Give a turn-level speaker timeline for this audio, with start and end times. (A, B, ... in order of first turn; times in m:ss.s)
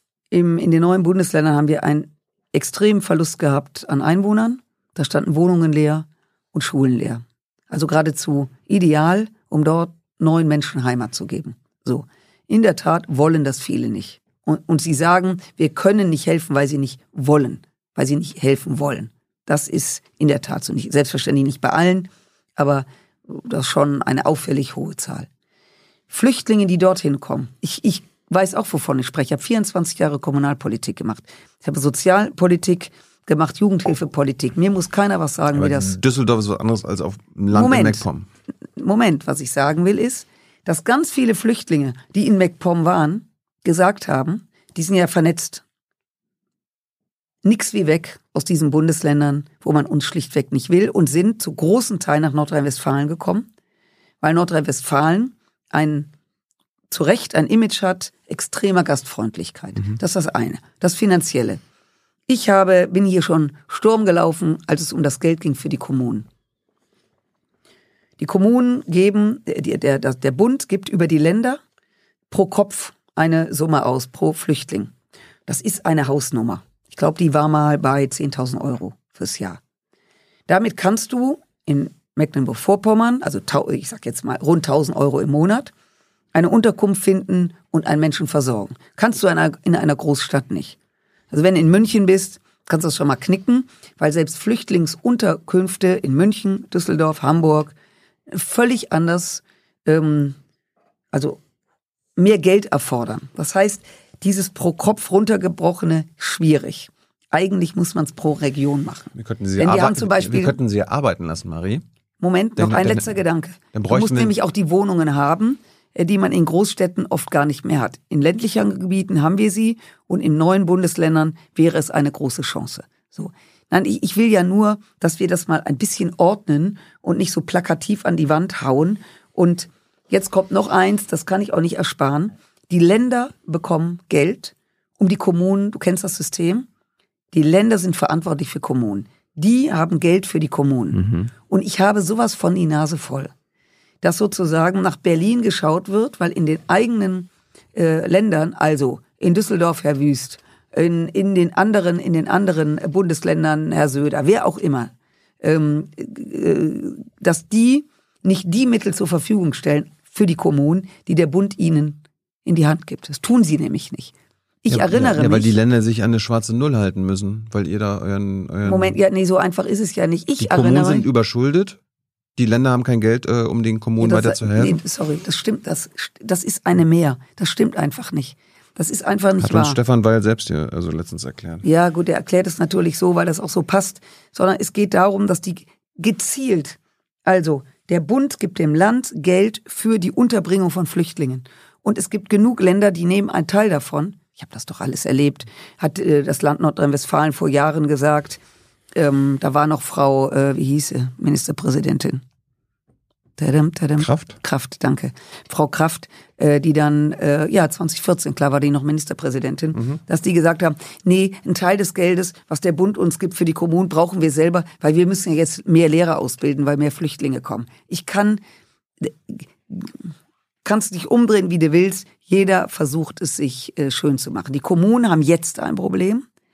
0:00.3-0:25.3 A
0:26.1-0:36.0 A
0:35.5-0:38.3 B
0:37.5-0:38.0 A
0:38.8-0:45.6 A
0:47.4-0:53.5 A
0:54.2-0:56.1 A
0:56.9-1:01.6 A
1:02.3-1:06.3 A
1:08.2-1:11.6 A
1:12.3-1:14.9 A
1:15.5-1:19.6 A
1:20.5-1:25.7 A
1:26.3-1:30.8 A
1:31.3-1:37.7 A
1:38.3-1:40.4 A
1:41.1-1:41.4 A
1:42.2-1:50.6 A
1:49.2-1:51.8 B
1:52.2-2:16.7 A
1:52.6-1:53.1 B
1:53.7-1:54.3 B
2:17.3-2:23.3 A
2:20.9-2:21.3 B
2:24.0-2:44.1 A
2:44.6-2:45.6 A
2:44.7-2:49.0 B
2:48.6-2:51.1 A
2:50.4-2:51.8 B
2:52.4-2:54.8 B
2:54.0-2:59.8 A
2:59.4-3:01.7 B
3:01.6-3:18.4 A
3:19.0-3:22.2 A
3:23.4-3:38.4 A
3:24.0-3:24.4 B
3:39.0-3:40.1 A
3:40.6-3:46.2 A